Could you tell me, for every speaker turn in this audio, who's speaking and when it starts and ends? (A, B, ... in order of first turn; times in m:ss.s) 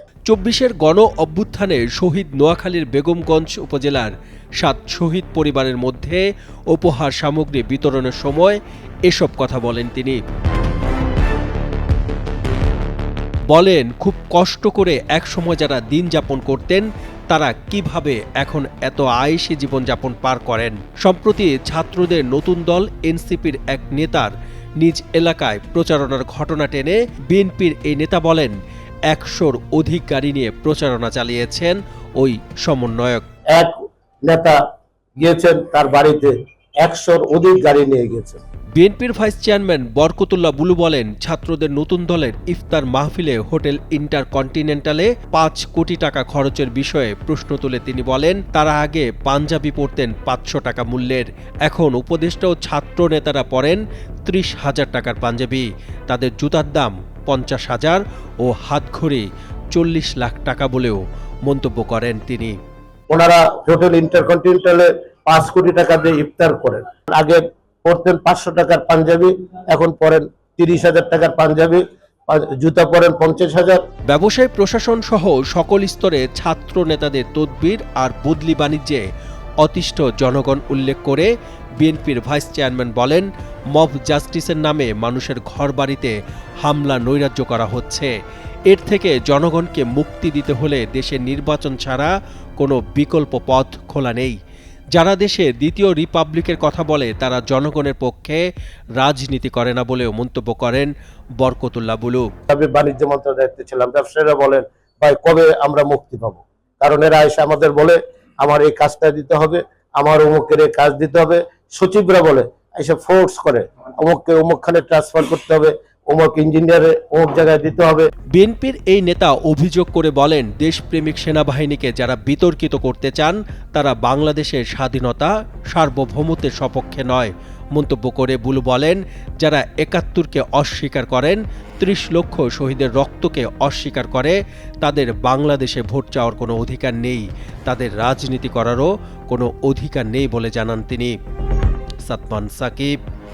0:00.3-0:10.2 A
0:13.5-0:28.5 A
0:29.1-0:33.2 A
0:33.5-0:34.6 B
0:35.2-0:38.4 B
0:38.8-1:02.5 A
1:03.1-1:13.8 B
1:14.1-1:19.0 A
1:19.6-1:28.1 A
1:28.7-1:34.4 A
1:35.0-1:38.4 A
1:39.0-1:42.3 A
1:42.5-1:58.1 B
1:58.3-2:21.2 A
2:22.0-2:23.0 A